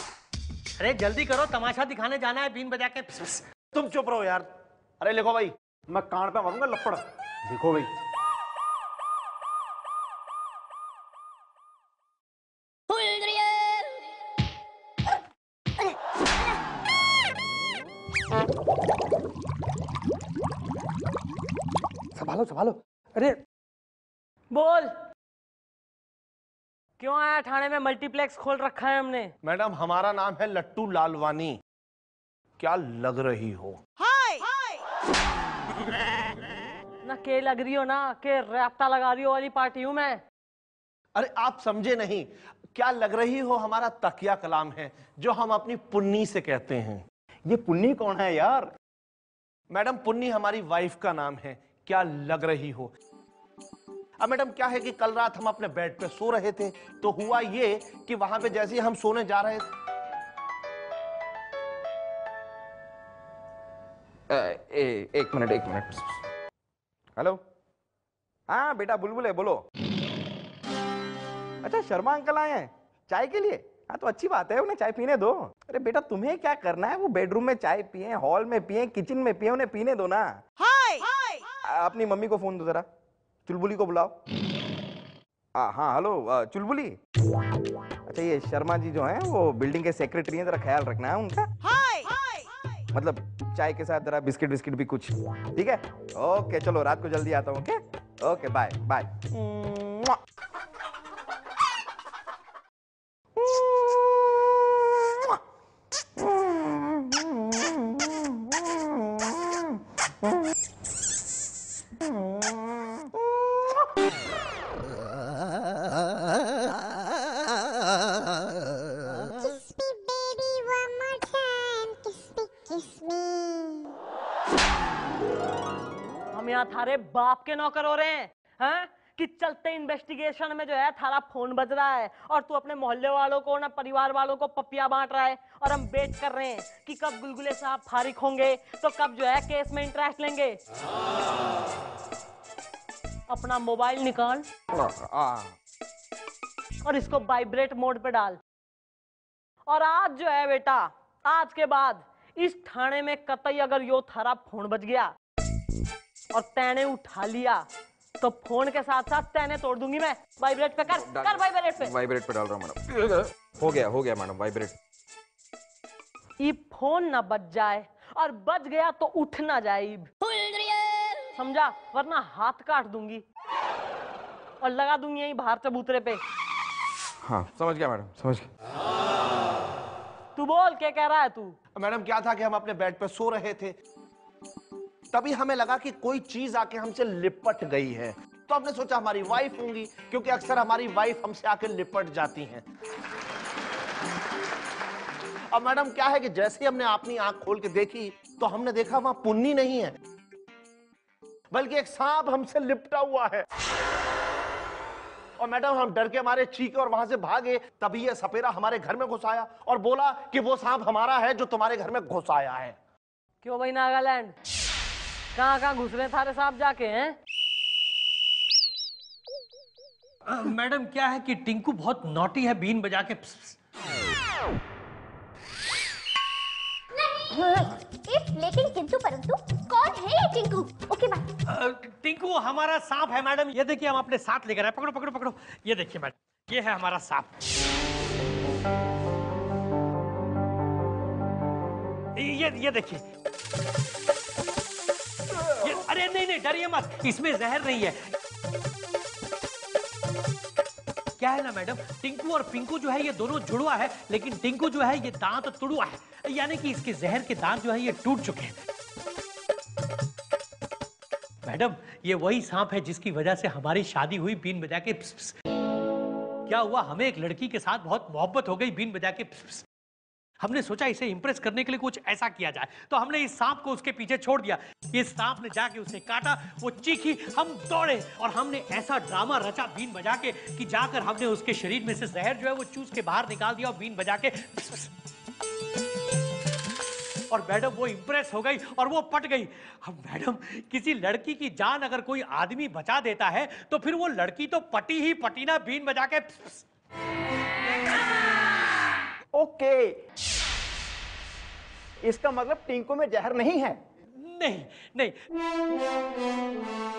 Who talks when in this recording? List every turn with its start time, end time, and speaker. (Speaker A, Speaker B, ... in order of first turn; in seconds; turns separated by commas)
Speaker A: 0.8-3.4, Speaker B: 3.7-4.5, Speaker B: 5.0-7.9, Speaker A: 22.1-23.4, Speaker C: 24.5-24.9, Speaker C: 27.0-29.3, Speaker B: 29.4-31.6, Speaker B: 32.6-33.8, Speaker C: 37.0-40.2, Speaker B: 41.1-48.7, Speaker B: 49.7-52.9, Speaker B: 54.2-59.6, Speaker D: 64.3-66.2, Speaker D: 68.5-69.6, Speaker D: 71.6-80.3, Speaker D: 81.6-82.8, Speaker D: 83.5-84.2, Speaker D: 85.5-87.0, Speaker D: 88.1-91.5, Speaker D: 92.9-100.2, Speaker D: 103.3-105.4, Speaker D: 106.2-109.8, Speaker D: 112.0-113.8, Speaker C: 126.3-140.6, Speaker C: 143.3-144.4, Speaker D: 144.7-145.5, Speaker C: 146.8-148.4, Speaker C: 149.7-155.1, Speaker C: 156.3-157.6, Speaker C: 158.2-161.9, Speaker D: 160.9-164.7, Speaker C: 166.4-170.1, Speaker C: 171.3-173.2, Speaker C: 174.6-176.2, Speaker D: 177.2-178.5, Speaker C: 180.3-181.6, Speaker B: 181.8-183.8, Speaker B: 185.1-192.6, Speaker B: 195.5-199.9, Speaker B: 201.5-203.4, Speaker B: 205.4-212.8, Speaker C: 213.4-214.3, Speaker C: 215.3-217.2, Speaker A: 220.3-223.6, Speaker E: 226.9-231.2, Speaker A: 231.5-237.3, Speaker A: 242.2-243.0, Speaker A: 245.6-248.1, Speaker A: 251.2-258.5, Speaker A: 261.4-265.3, Speaker A: 266.4-269.6, Speaker A: 270.4-284.9, Speaker A: 287.3-296.6, Speaker B: 299.4-299.8, Speaker B: 302.0-303.7, Speaker A: 304.2-305.1